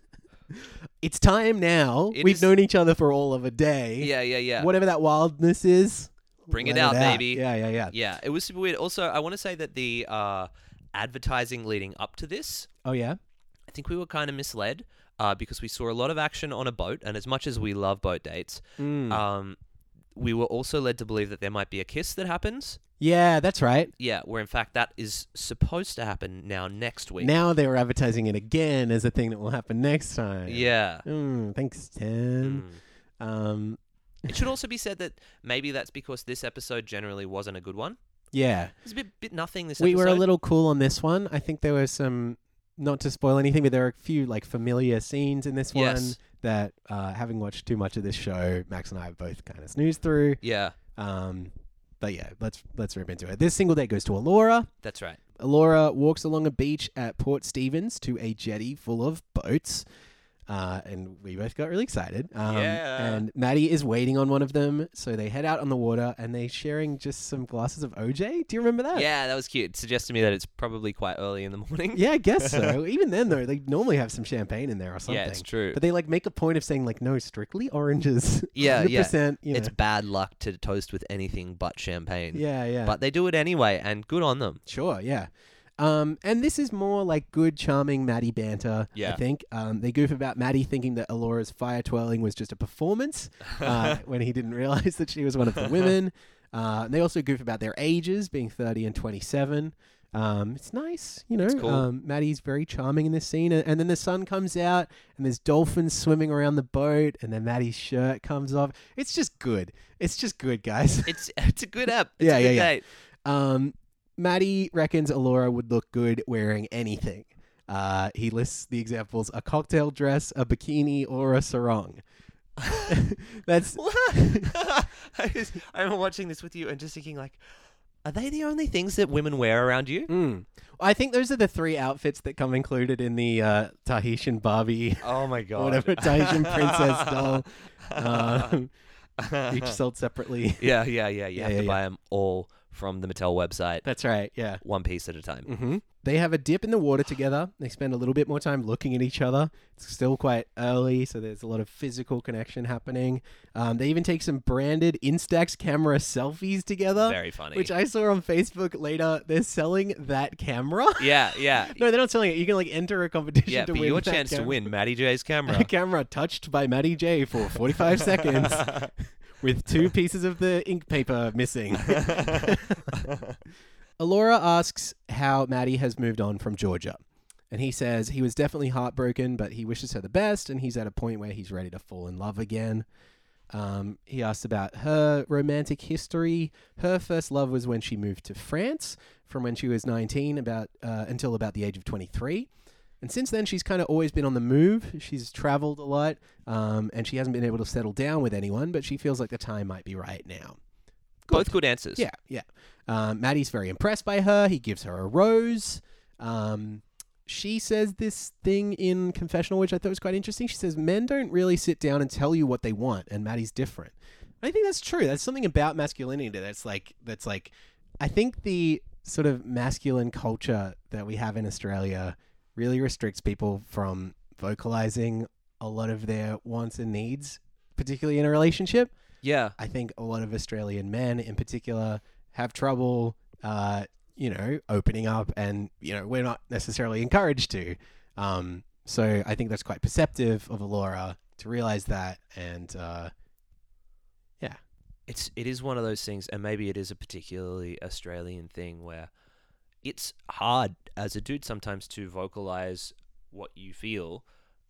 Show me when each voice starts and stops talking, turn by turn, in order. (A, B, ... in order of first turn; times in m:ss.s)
0:00.5-0:07.9 A
0:02.1-0:02.5 B
0:04.0-0:04.7 B
0:06.5-0:12.7 B
0:12.8-0:13.2 A
0:13.7-0:19.6 B
0:18.8-0:19.2 A
0:20.1-0:22.8 B
0:23.0-0:23.9 A
0:24.0-0:27.3 B
0:27.2-0:32.6 A
0:30.5-0:31.0 B
0:32.4-0:32.8 B
0:33.2-0:34.4 A
0:34.3-0:38.0 B
0:38.3-0:38.7 A
0:38.8-0:40.2 B
0:39.8-0:50.4 A
0:45.7-0:46.2 B
0:50.4-0:50.8 B
0:51.0-0:54.7 A
0:54.8-0:55.2 B
0:55.4-0:59.8 A
1:00.5-1:09.1 A
1:02.4-1:03.2 B
1:08.9-1:12.7 B
1:11.9-1:19.7 A
1:15.1-1:15.8 B
1:18.6-1:24.6 B
1:22.3-1:23.0 A
1:24.7-1:51.2 A
1:29.0-1:29.2 B
1:33.4-1:34.0 B
1:41.5-1:41.9 B
1:51.1-1:52.8 B
1:52.2-2:02.0 A
2:02.6-2:03.0 B
2:02.7-2:04.5 A
2:03.8-2:07.4 B
2:08.0-2:10.1 B
2:10.1-2:18.7 A
2:15.0-2:18.5 B
2:19.2-2:19.8 B
2:19.5-2:20.7 A
2:20.6-2:23.8 B
2:21.4-2:21.8 A
2:23.8-2:24.6 A
2:24.6-2:25.5 B
2:25.5-2:44.6 A
2:37.0-2:37.7 B
2:41.0-2:41.8 B
2:43.5-2:45.7 B
2:45.5-2:48.8 A
2:48.0-2:48.9 B
2:49.4-2:53.0 A
2:51.9-2:53.4 B
2:54.0-3:02.9 A
3:03.5-3:12.5 A
3:13.0-3:20.6 A
3:21.2-3:48.9 A
3:21.3-3:22.0 B
3:49.2-3:49.6 B
3:49.6-4:03.1 A
4:05.1-4:09.1 B
4:09.8-4:14.2 B